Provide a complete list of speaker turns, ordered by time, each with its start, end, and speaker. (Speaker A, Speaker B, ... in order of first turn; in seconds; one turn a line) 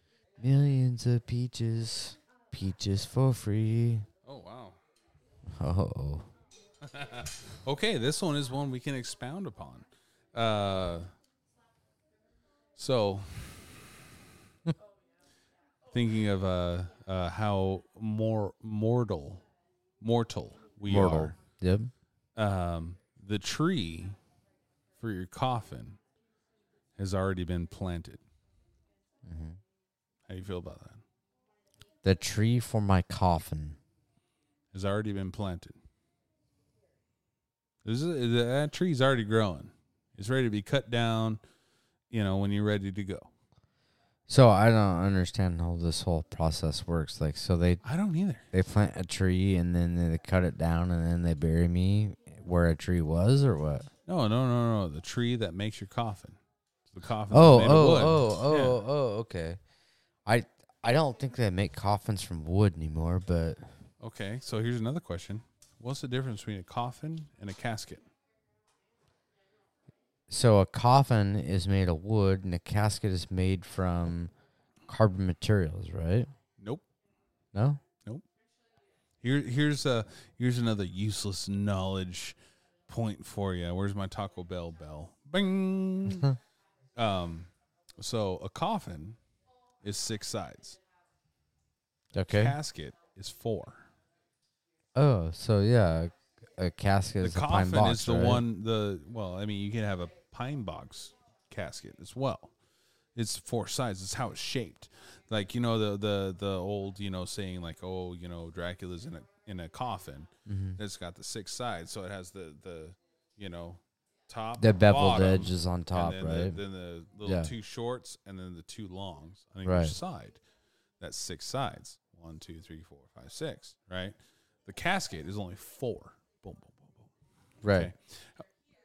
Speaker A: 0.4-4.0
Speaker B: 4.2-4.8
Speaker A: 5.6-6.3
Speaker B: 6.8-11.1
Speaker B: 12.8-13.7
Speaker B: 15.9-19.4
Speaker B: 20.0-21.3
Speaker A: 20.9-21.9
Speaker B: 22.4-24.2
Speaker B: 25.0-26.0
Speaker B: 27.0-28.2
Speaker A: 29.2-29.6
Speaker B: 30.3-31.0
Speaker A: 32.0-33.8
Speaker B: 34.7-35.8
Speaker B: 37.8-41.4
Speaker B: 42.1-43.3
Speaker A: 44.3-47.8
Speaker B: 47.8-48.5
Speaker A: 48.5-53.9
Speaker B: 54.1-56.4
Speaker B: 56.9-58.8
Speaker A: 57.3-59.6
Speaker A: 60.2-63.6
Speaker B: 64.0-68.0
Speaker A: 70.3-74.3
Speaker A: 74.9-76.3
Speaker B: 76.6-76.8
Speaker A: 77.5-77.8
Speaker B: 79.2-82.4
Speaker B: 82.9-86.3
Speaker B: 87.0-89.2
Speaker B: 89.8-90.8
Speaker A: 92.1-92.5
Speaker B: 92.2-93.9
Speaker A: 94.9-98.5
Speaker B: 97.2-102.5
Speaker B: 103.2-120.4
Speaker A: 110.5-110.8
Speaker A: 114.6-116.6
Speaker A: 117.2-117.5
Speaker A: 119.6-120.0
Speaker B: 121.0-127.1
Speaker A: 127.6-127.9
Speaker B: 127.7-128.4